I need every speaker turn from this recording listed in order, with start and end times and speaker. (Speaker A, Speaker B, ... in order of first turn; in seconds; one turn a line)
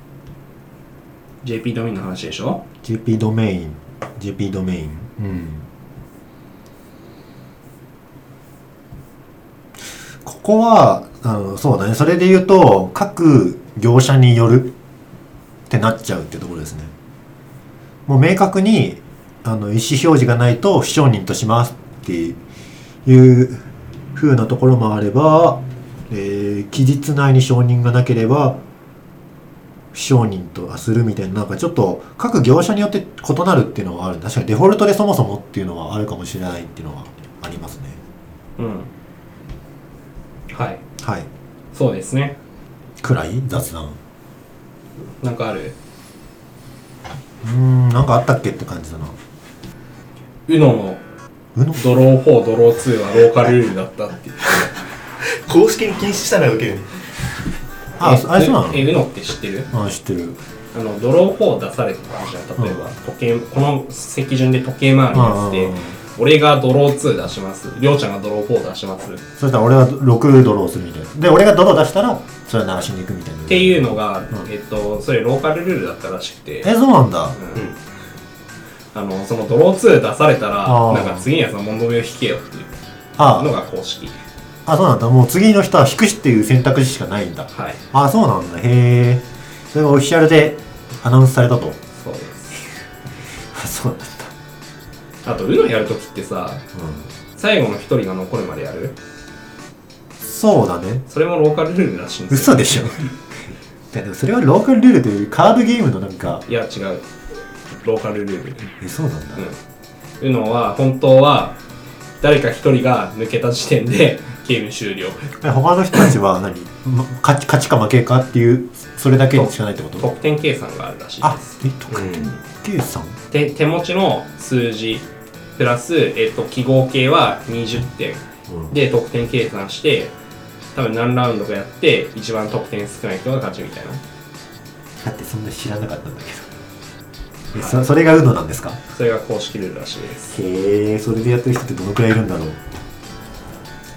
Speaker A: 1.4-2.6
Speaker B: 2.8-5.7
Speaker B: 10.2-14.7
Speaker B: 15.7-16.9
Speaker B: 18.1-22.4
Speaker B: 23.0-28.6
Speaker B: 29.9-38.0
Speaker A: 38.6-38.9
Speaker A: 40.5-40.8
Speaker B: 41.0-41.3
Speaker A: 41.7-42.4
Speaker B: 43.0-44.0
Speaker A: 45.2-45.8
Speaker B: 47.4-49.2
Speaker A: 50.5-51.0
Speaker B: 51.5-51.8
Speaker A: 51.8-54.7
Speaker C: 55.2-56.9
Speaker B: 58.0-58.9
Speaker A: 58.0-59.7
Speaker B: 59.7-60.4
Speaker A: 60.7-69.2
Speaker B: 65.1-65.9
Speaker B: 69.4-74.5
Speaker A: 73.5-76.7
Speaker B: 76.6-77.4
Speaker A: 77.3-77.6
Speaker A: 78.9-82.7
Speaker B: 80.6-81.3
Speaker B: 83.2-83.5
Speaker A: 83.3-84.2
Speaker B: 84.7-91.8
Speaker A: 87.5-87.8
Speaker A: 92.0-92.6
Speaker B: 93.5-94.3
Speaker A: 95.2-96.6
Speaker B: 96.7-97.1
Speaker A: 97.3-99.0
Speaker B: 100.2-101.0
Speaker A: 101.1-103.1
Speaker B: 102.3-103.1
Speaker B: 103.9-106.4
Speaker A: 106.5-107.0
Speaker A: 107.8-108.7
Speaker B: 108.7-109.4
Speaker A: 110.2-111.6
Speaker A: 112.2-115.3
Speaker B: 115.4-120.0
Speaker A: 119.3-121.5
Speaker B: 121.2-123.2
Speaker C: 121.9-122.4
Speaker A: 123.3-125.0
Speaker A: 125.6-130.1
Speaker A: 130.7-134.0
Speaker B: 135.0-136.5
Speaker B: 137.5-138.8
Speaker A: 138.9-140.4
Speaker B: 140.3-142.6